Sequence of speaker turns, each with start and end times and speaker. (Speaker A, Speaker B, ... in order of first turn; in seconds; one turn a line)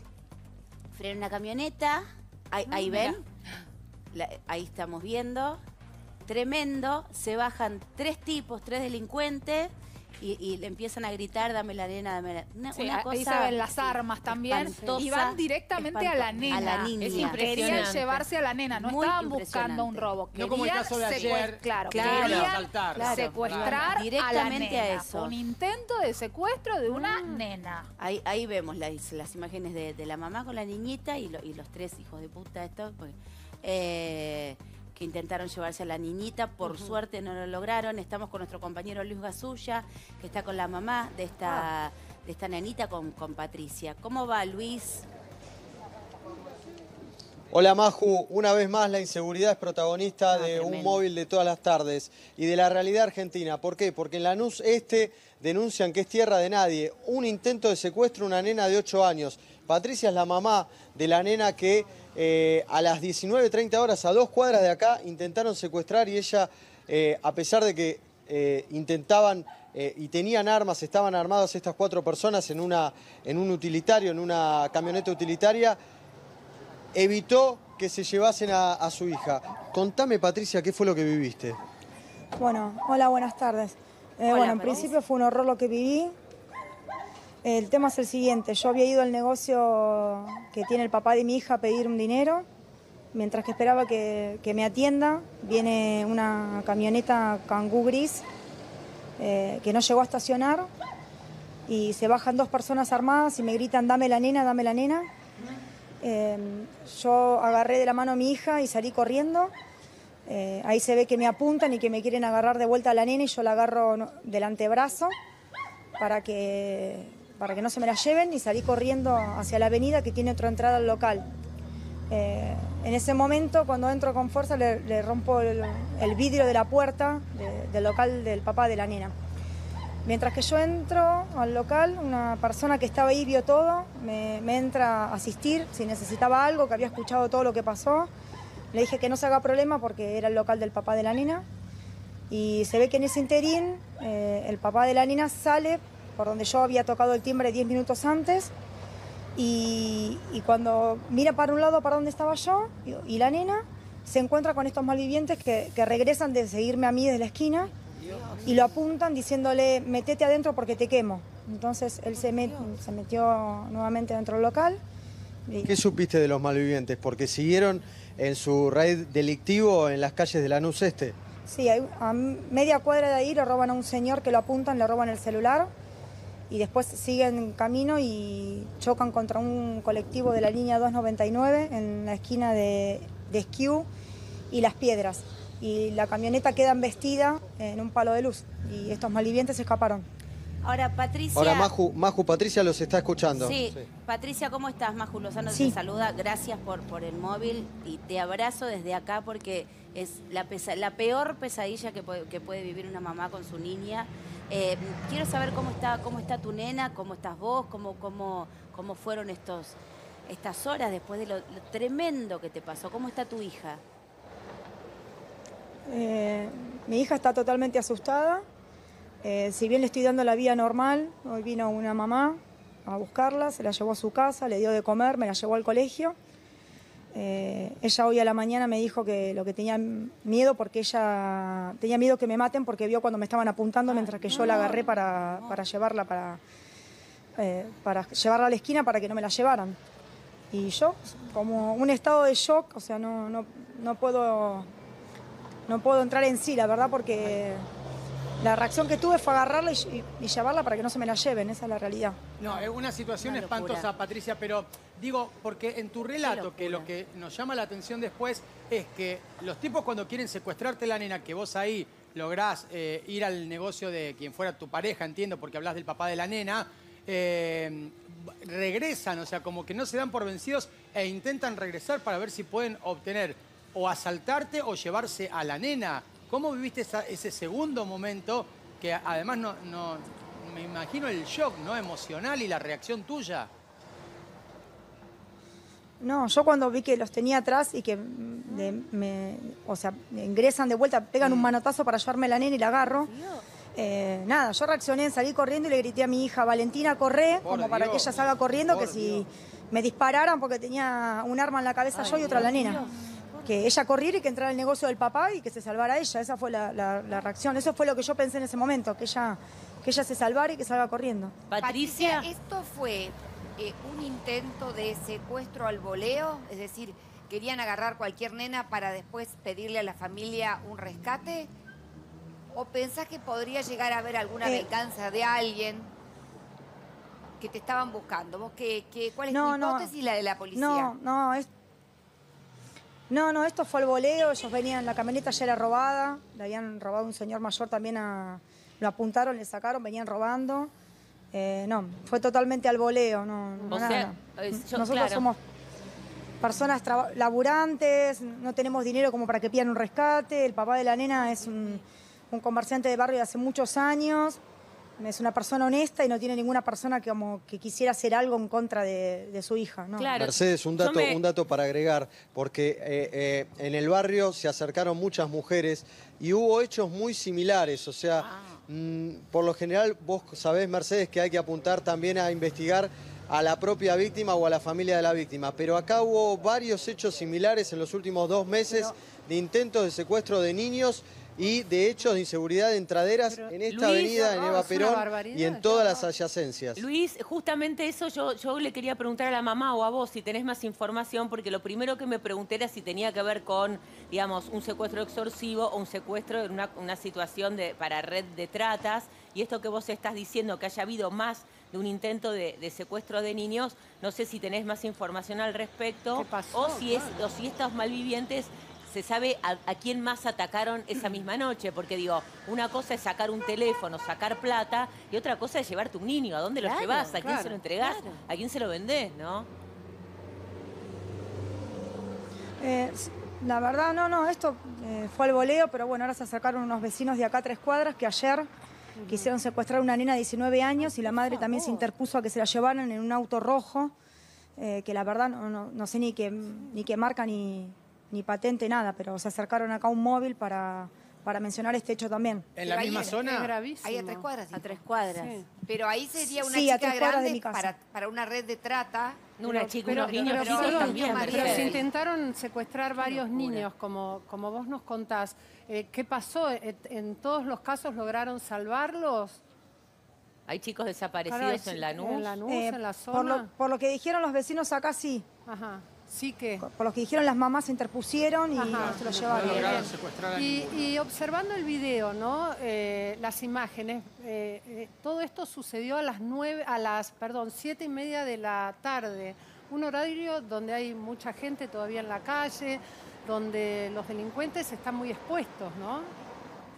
Speaker A: 0.9-3.2
Speaker A: 4.1-5.6
Speaker A: 6.2-18.0
Speaker B: 12.7-27.9
Speaker C: 17.1-18.2
Speaker A: 18.7-20.1
Speaker D: 20.3-23.7
Speaker E: 20.9-21.2
Speaker A: 21.9-25.4
Speaker F: 26.9-27.4
Speaker A: 28.0-45.0
Speaker G: 47.5-75.8
Speaker A: 50.3-51.0
Speaker G: 76.9-81.6
Speaker H: 82.4-86.1
Speaker A: 84.2-85.0
Speaker H: 87.4-92.4
Speaker H: 93.1-98.2
Speaker H: 99.2-100.7
Speaker H: 101.7-105.1
Speaker H: 106.0-109.5
Speaker H: 110.3-115.1
Speaker H: 116.0-121.3
Speaker H: 122.1-129.1
Speaker H: 130.0-138.1
Speaker H: 138.7-141.4
Speaker H: 142.3-148.5
Speaker H: 149.3-157.7
Speaker C: 158.1-158.7
Speaker H: 158.4-164.8
Speaker H: 165.5-165.7
Speaker G: 165.7-171.1
Speaker H: 171.5-175.7
Speaker H: 176.5-183.9
Speaker H: 184.5-190.1
Speaker A: 190.6-191.7
Speaker G: 191.3-193.8
Speaker A: 193.3-213.8
Speaker H: 195.5-195.8
Speaker H: 215.9-218.4
Speaker H: 219.2-226.2
Speaker H: 227.1-236.4
Speaker A: 234.3-234.6
Speaker H: 237.4-239.8
Speaker H: 240.5-244.7
Speaker H: 245.7-247.7
Speaker H: 248.4-252.2
Speaker D: 252.4-283.5
Speaker A: 253.2-253.9
Speaker A: 256.2-256.9
Speaker H: 286.0-293.1
Speaker D: 291.2-291.5
Speaker C: 292.9-293.4
Speaker H: 293.7-302.9
Speaker D: 297.4-298.1
Speaker D: 298.6-299.2
Speaker C: 301.9-303.7
Speaker H: 303.4-311.3
Speaker C: 311.5-312.3
Speaker E: 311.6-321.5
Speaker E: 322.5-325.9
Speaker H: 324.4-324.7
Speaker E: 327.4-330.9
Speaker H: 329.3-329.9
Speaker H: 330.5-331.5
Speaker H: 333.1-340.7
Speaker H: 341.3-345.4
Speaker C: 343.7-345.3
Speaker H: 346.4-354.4
Speaker H: 355.0-360.1
Speaker C: 360.0-361.2
Speaker G: 360.1-386.8
Speaker C: 368.1-368.6
Speaker F: 383.3-383.6
Speaker C: 383.7-384.4
Speaker F: 384.3-386.1
Speaker C: 386.8-419.5
Speaker F: 406.1-407.3
Speaker A: 416.6-417.2
Speaker F: 417.2-417.6
Speaker A: 417.8-418.2
Speaker H: 422.6-428.5
Speaker F: 429.0-429.3
Speaker H: 429.1-433.9
Speaker F: 431.0-431.9
Speaker H: 434.6-442.5
Speaker D: 442.6-443.5
Speaker E: 442.6-445.0
Speaker F: 442.9-444.3
Speaker A: 444.5-445.4
Speaker F: 445.2-445.5
Speaker E: 445.5-449.3
Speaker H: 446.4-447.7
Speaker C: 449.4-451.8
Speaker F: 449.4-459.4
Speaker E: 449.9-451.9
Speaker C: 453.0-453.6
Speaker C: 460.5-462.4
Speaker F: 461.2-463.5
Speaker H: 462.4-465.3
Speaker F: 465.4-466.6
Speaker H: 466.6-469.9
Speaker F: 468.5-486.1
Speaker D: 469.3-471.0